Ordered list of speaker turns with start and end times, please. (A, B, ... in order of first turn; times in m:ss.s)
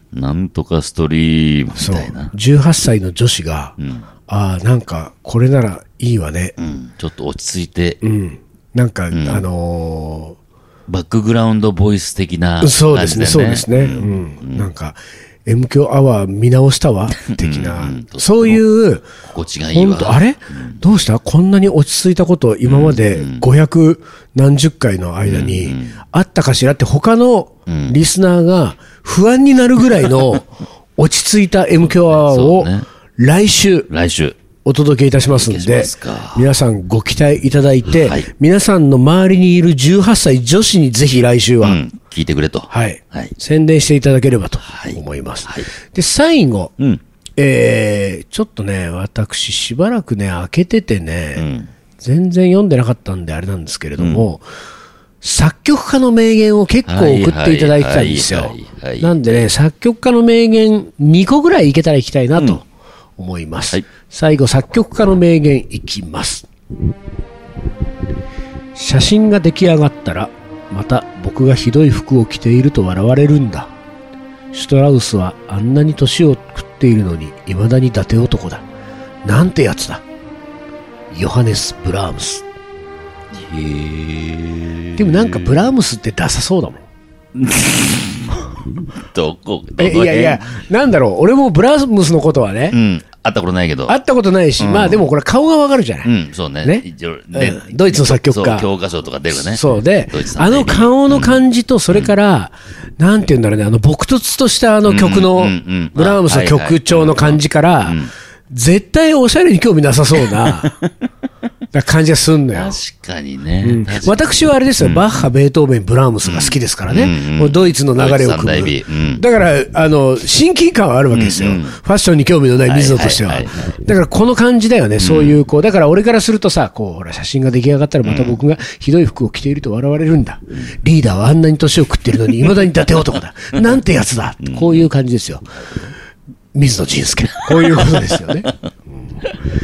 0:00.1-0:02.3 A
0:01.8-0:03.8 B
0:03.8-0:04.1 A
0:04.3-0:06.5 B
0:06.6-0:08.0 A
0:08.0-0:10.4 B
0:09.1-0:09.4 A
0:10.9-0:14.7 A
0:12.6-0:19.1 B
0:17.2-0:18.6 A
0:19.2-0:20.8 A
0:19.7-0:33.9 B
0:22.7-0:23.5 A
0:25.2-0:26.0 A
0:27.7-0:28.0 A
0:31.8-0:32.9 A
0:33.9-0:34.4 A
0:34.6-0:41.8 B
0:35.3-0:36.5 A
0:37.9-0:38.3 A
0:41.6-0:43.3 A
0:42.7-0:46.7 B
0:44.7-0:45.7 A
0:47.4-0:51.5 B
0:51.4-0:51.7 A
0:52.0-0:54.4 B
0:54.0-0:54.2 A
0:55.2-1:02.6 B
0:56.9-0:59.3 A
1:03.2-1:06.5 B
1:08.8-1:13.7 B
1:14.5-1:18.7 B
1:19.2-1:20.0 B
1:21.1-1:22.4 B
1:23.3-1:25.7 A
1:25.0-1:26.8 B
1:27.3-1:30.6 A
1:29.8-1:32.8 B
1:32.7-1:34.0 A
1:33.9-1:36.1 B
1:34.6-1:35.0 A
1:36.0-1:41.4 A
1:36.6-1:38.7 B
1:39.3-1:50.8 B
1:44.8-1:48.1 A
1:50.3-1:50.9 A
1:51.7-1:52.8 B
1:52.5-1:55.3 A
1:53.6-2:15.6 B
1:56.2-1:59.2 A
2:01.1-2:01.8 A
2:02.6-2:03.7 A
2:05.0-2:05.4 A
2:08.0-2:08.4 A
2:14.4-2:14.9 A
2:15.6-2:15.9 A
2:16.6-2:18.5 B
2:17.5-2:18.1 A